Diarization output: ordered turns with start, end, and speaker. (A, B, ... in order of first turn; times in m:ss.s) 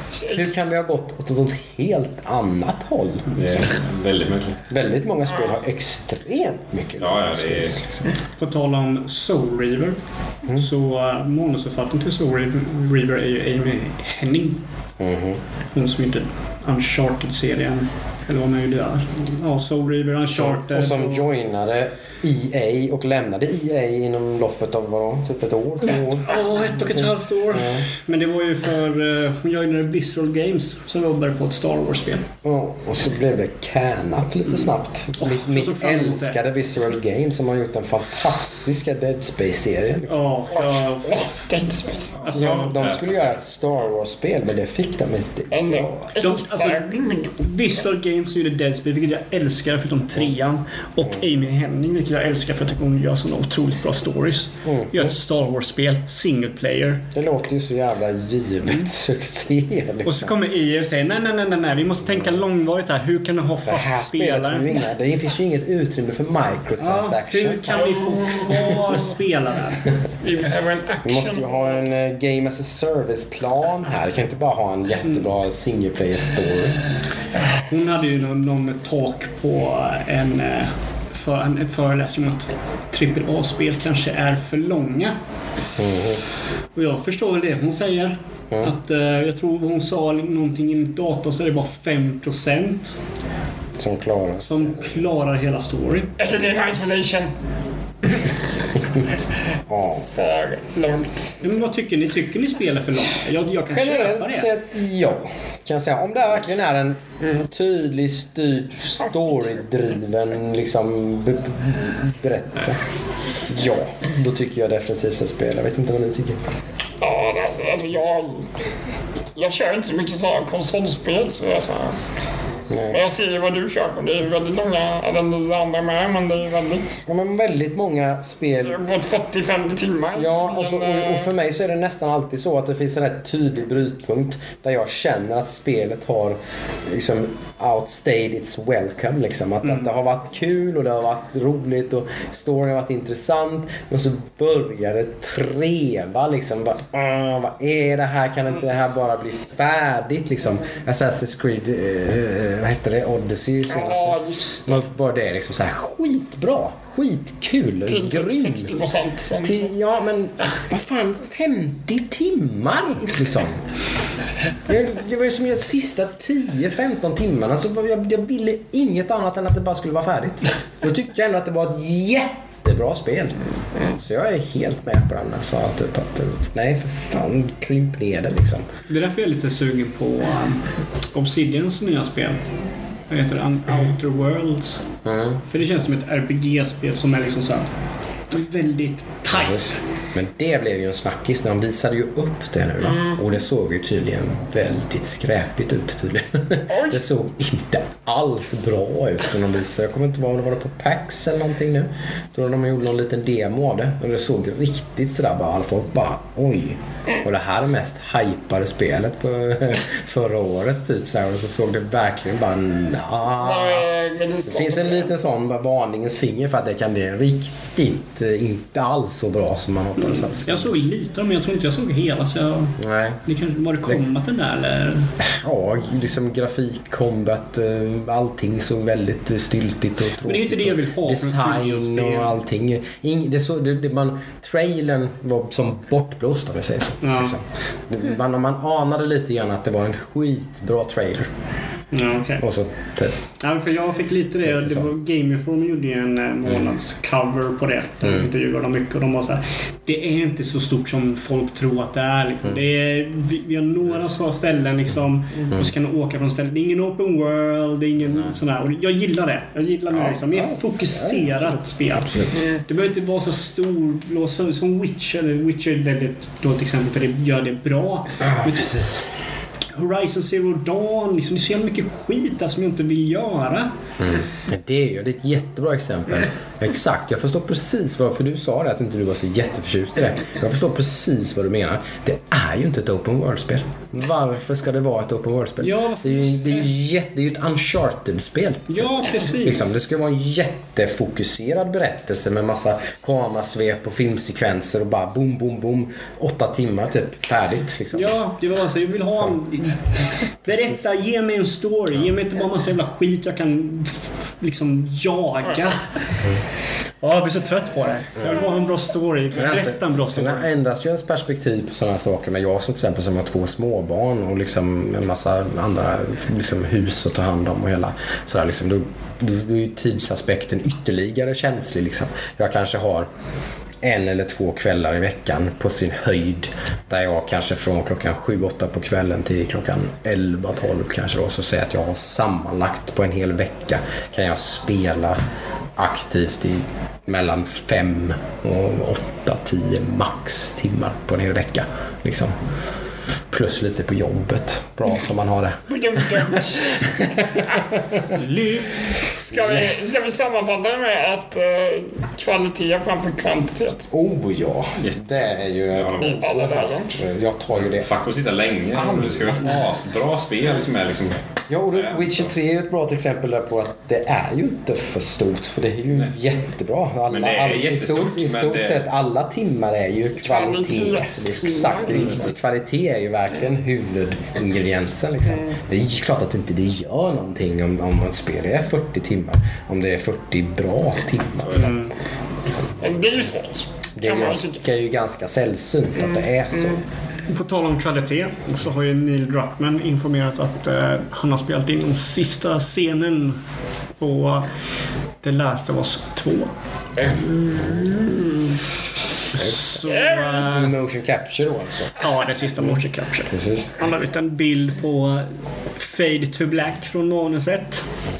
0:00.1-0:00.6 A
0:00.3-0:03.6 B
0:03.3-0:04.6 C
0:04.7-0:08.1 B
0:07.0-0:07.8 C
0:08.4-0:10.0 D
0:10.5-0:14.6 D
0:15.0-0:15.4 B
0:15.7-0:21.3 D
0:20.3-0:27.9 B
0:26.2-0:32.3 D
0:32.4-0:40.5 B
0:35.2-0:36.4 D
0:40.1-0:41.4 D
0:40.5-0:42.2 A
0:42.2-0:43.4 C
0:42.2-0:42.7 D
0:42.3-0:45.9 B
0:45.5-0:47.4 A
0:46.2-0:57.1 D
0:54.6-0:55.1 B
0:57.1-1:00.3 B
1:00.0-1:04.8 D
1:03.6-1:07.8 B
1:06.8-1:09.8 D
1:07.7-1:09.0 A
1:10.2-1:11.8 A
1:11.0-1:16.8 B
1:17.7-1:25.2 D
1:25.8-1:26.2 B
1:26.7-1:33.0 D
1:33.8-1:34.7 B
1:34.4-1:36.1 D
1:36.2-1:37.3 A
1:38.0-1:38.4 A
1:39.7-1:40.1 B
1:40.1-1:41.5 A
1:41.4-1:44.5 D
1:43.7-1:52.8 B
1:53.4-1:56.4 B
1:57.0-1:58.5 A
1:59.4-2:02.0 A
2:02.7-2:03.0 B
2:02.9-2:07.0 A
2:07.0-2:08.8 B
2:08.6-2:11.3 A
2:10.1-2:38.7 B
2:33.7-2:34.8 A
2:37.9-2:39.7 A
2:39.4-2:43.6 B
2:44.6-2:53.4 B
2:53.9-2:58.7 B
2:58.9-3:02.4 D
3:03.1-3:04.8 D
3:05.0-3:05.4 B
3:05.5-3:07.7 D
3:08.3-3:09.8 D
3:09.3-3:33.9 B
3:12.8-3:13.2 A
3:16.7-3:17.0 A
3:33.3-3:35.1 A
3:34.4-3:40.7 B
3:40.0-3:45.1 D
3:42.8-3:43.2 B
3:45.2-4:01.3 B
3:50.2-3:52.3 D
3:57.0-3:57.4 D
4:01.9-4:02.4 D
4:02.4-4:03.2 B
4:03.4-4:28.7 D
4:04.4-4:04.9 B
4:19.9-4:22.5 B
4:28.2-4:29.1 B
4:29.7-4:33.7 D
4:34.0-4:58.1 B
4:45.6-4:46.5 D
4:48.7-4:49.6 D
4:57.9-5:05.8 D
5:07.0-5:10.5 D
5:09.3-5:23.1 B
5:23.8-5:35.2 B
5:35.8-5:42.3 B
5:43.3-5:48.0 B
5:45.7-5:47.7 A
5:48.1-5:49.0 D
5:49.0-5:53.9 A
5:49.3-5:50.0 B
5:53.9-5:57.9 B
5:54.8-5:55.2 C
5:55.7-5:56.2 C
5:56.0-5:56.9 A
5:57.6-6:01.2 C
5:58.7-5:59.6 B
6:01.5-6:21.9 B
6:01.7-6:02.3 C
6:07.1-6:08.8 C
6:10.2-6:12.2 A
6:21.4-6:21.8 C
6:21.6-6:21.9 D
6:22.4-6:22.9 B
6:22.8-6:24.6 A
6:24.0-6:26.8 B
6:26.0-6:26.8 A
6:27.3-6:33.4 D
6:34.0-6:34.5 D
6:35.2-6:36.5 D
6:37.0-6:38.6 A
6:39.3-6:40.7 D
6:39.4-6:39.8 B
6:39.8-6:40.6 A
6:40.3-6:42.8 B
6:42.0-6:47.9 D
6:43.3-6:43.7 B